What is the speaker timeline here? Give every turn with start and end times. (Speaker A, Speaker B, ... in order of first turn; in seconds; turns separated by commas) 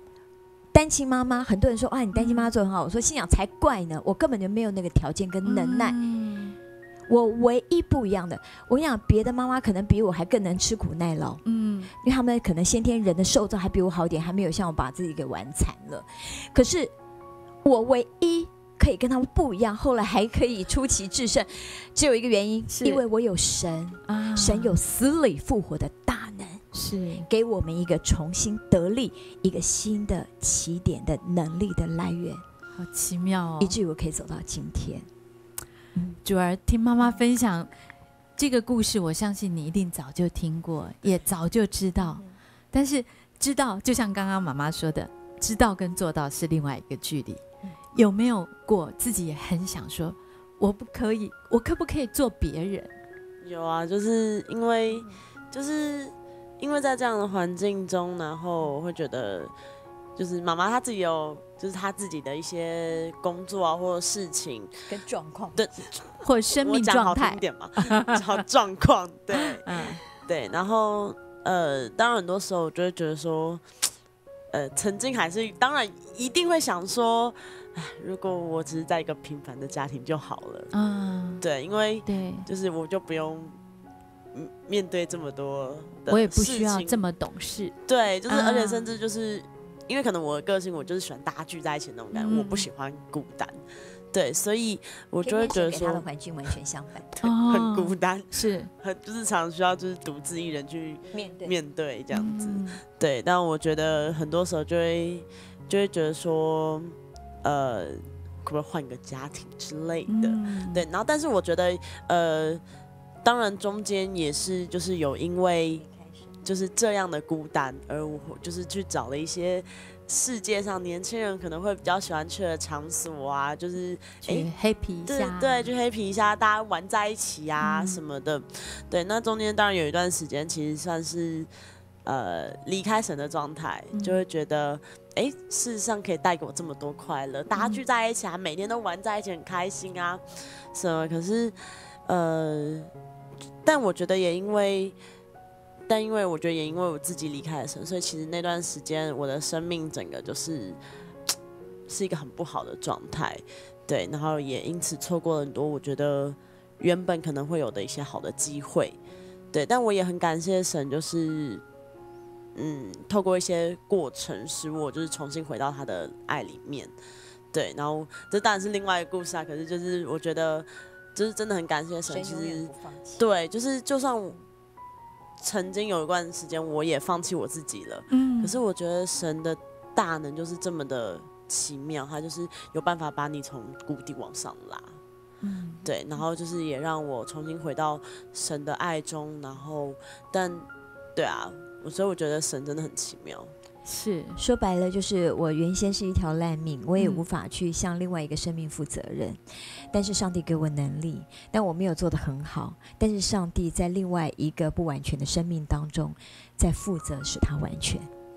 Speaker A: 0.7-6.0, Speaker B: 2.1-2.5, Speaker B: 5.4-6.5, Speaker A: 7.1-11.4, Speaker B: 11.4-11.9, Speaker A: 11.9-16.9, Speaker A: 17.6-26.6, Speaker B: 22.7-23.0, Speaker B: 24.1-24.8, Speaker B: 26.7-27.3, Speaker A: 27.3-32.4, Speaker B: 32.8-33.8, Speaker A: 33.6-35.1, Speaker B: 36.2-37.7, Speaker B: 38.4-47.4, Speaker A: 42.0-42.3, Speaker B: 47.9-52.9, Speaker C: 53.4-59.5, Speaker C: 60.1-64.7, Speaker A: 64.9-65.8, Speaker C: 65.6-66.0, Speaker B: 66.2-68.2, Speaker C: 66.6-73.6, Speaker B: 69.3-70.0, Speaker C: 74.5-80.7, Speaker B: 80.7-81.4, Speaker C: 81.4-83.6, Speaker B: 82.0-82.5, Speaker C: 84.3-87.0, Speaker B: 86.1-87.7, Speaker C: 87.9-93.6, Speaker B: 88.3-88.9, Speaker B: 92.1-92.7, Speaker C: 94.1-96.0, Speaker A: 95.2-97.1, Speaker C: 97.1-112.6, Speaker B: 97.2-98.7, Speaker A: 101.1-101.5, Speaker B: 102.1-102.8, Speaker B: 110.1-110.8, Speaker C: 113.2-115.8, Speaker C: 116.4-124.5, Speaker B: 124.2-125.7, Speaker C: 125.1-131.5, Speaker B: 127.6-128.0, Speaker C: 132.0-142.9, Speaker B: 133.9-134.2, Speaker B: 137.5-137.8, Speaker C: 143.6-145.0, Speaker C: 145.9-150.8, Speaker C: 151.9-159.0, Speaker C: 159.5-161.6, Speaker C: 162.5-166.9, Speaker C: 167.5-174.4, Speaker A: 172.1-173.2, Speaker C: 175.4-185.0, Speaker B: 178.1-178.6, Speaker B: 185.4-185.8, Speaker C: 185.8-193.5, Speaker B: 193.8-194.4, Speaker A: 194.4-199.4, Speaker B: 197.0-197.2, Speaker A: 199.9-208.1